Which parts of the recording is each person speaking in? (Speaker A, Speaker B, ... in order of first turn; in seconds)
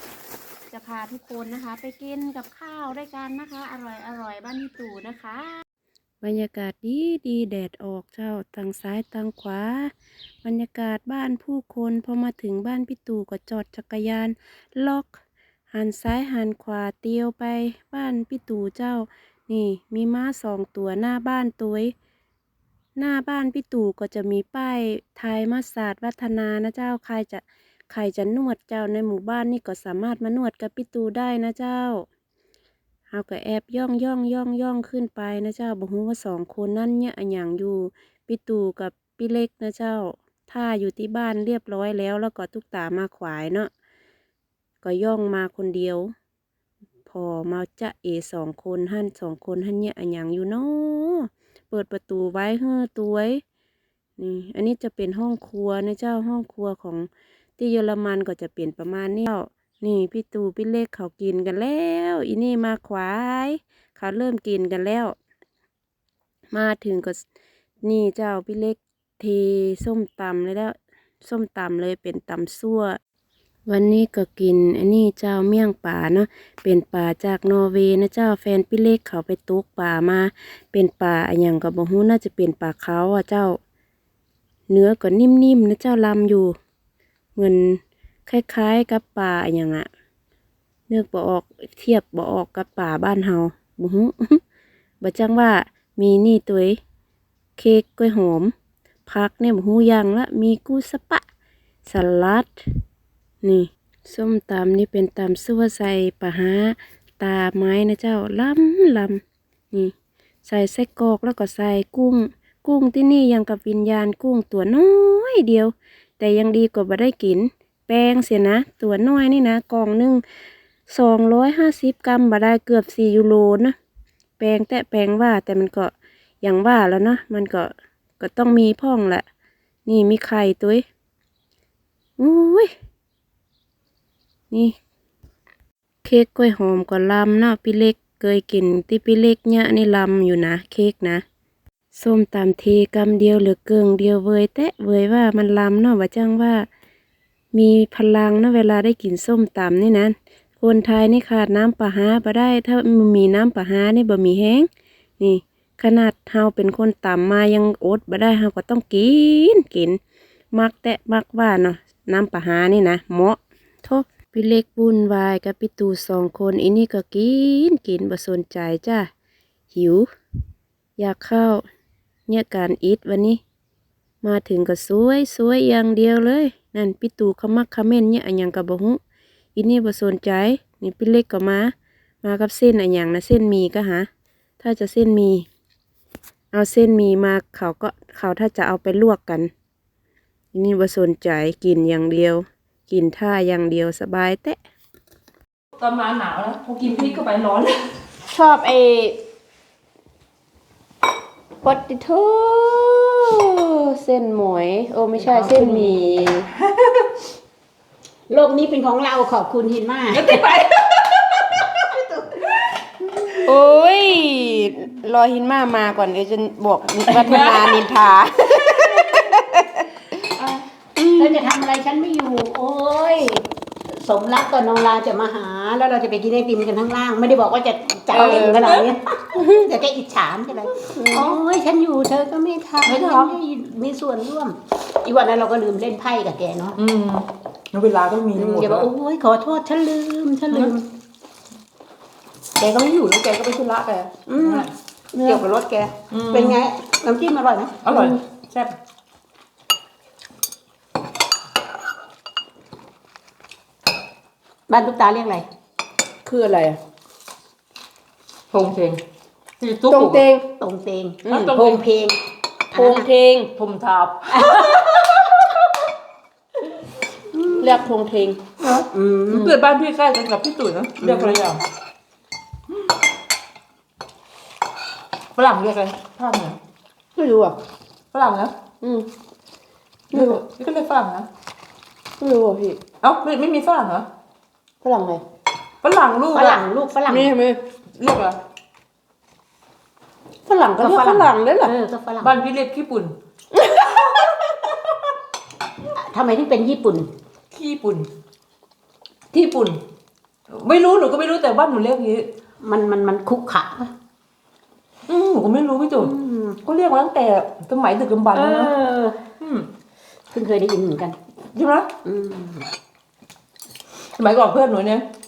Speaker A: 0.7-5.6, 6.2-9.9, 10.4-15.2, 15.7-21.9, 23.0-32.1, 33.1-43.7, 44.8-46.1, 47.0-53.4, 54.2-65.2, 66.5-67.2, 67.8-73.0, 73.7-83.6, 84.7-86.5, 87.3-89.9, 90.9-94.4, 95.0-96.8, 97.6-98.5, 99.0-101.2, 101.8-102.6, 103.4-109.2, 110.4-120.2, 120.9-123.7, 124.4-129.2, 129.8-130.8, 132.2-132.7, 136.0-141.2, 141.9-146.7, 147.5-154.7, 155.2-160.0, 160.5-169.1, 169.7-170.1, 171.0-171.6, 172.3-173.4, 174.2-179.0, 179.6-184.1, 184.6-185.4, 186.5-189.5, 190.5-194.6, 198.3-199.2, 201.6-206.5, 213.4-219.8, 221.0-221.3, 229.3-229.7, 230.9-231.4, 247.9-248.2, 256.2-256.8, 259.9-260.4, 261.2-261.6, 262.7-263.5, 267.6-268.4, 277.1-277.6, 278.8-279.1, 280.1-280.4, 282.2-282.8, 284.8-285.2, 287.1-287.6, 290.5-291.7, 293.5-294.3
Speaker B: 195.8-198.0, 205.1-207.1, 210.1-213.6, 217.1-217.8, 218.7-219.3, 220.4-220.6, 228.1-228.9, 232.8-233.4, 236.8-238.9, 242.6-245.4, 246.1-246.6, 247.8-248.7, 258.5-259.0, 259.6-260.2, 261.3-261.8, 263.5-265.1, 268.6-271.6, 275.4-276.6, 278.1-278.5, 280.1-281.3, 283.0-284.1, 285.8-286.7, 287.9-288.4, 292.2-293.1, 297.5-298.1, 299.3-299.8, 300.5-302.2, 305.1-306.1, 306.6-308.7, 309.4-309.7, 311.5-311.9, 314.1-315.1
Speaker C: 208.3-210.4, 221.2-236.8, 238.3-240.9, 244.3-247.9, 254.7-255.4, 260.6-263.1, 264.3-265.2, 267.3-267.8, 268.9-269.6, 271.0-271.4, 286.3-287.3, 290.8-292.3, 295.9-297.1, 302.6-303.9, 306.0-306.6, 308.3-309.2, 310.3-311.1, 312.0-312.7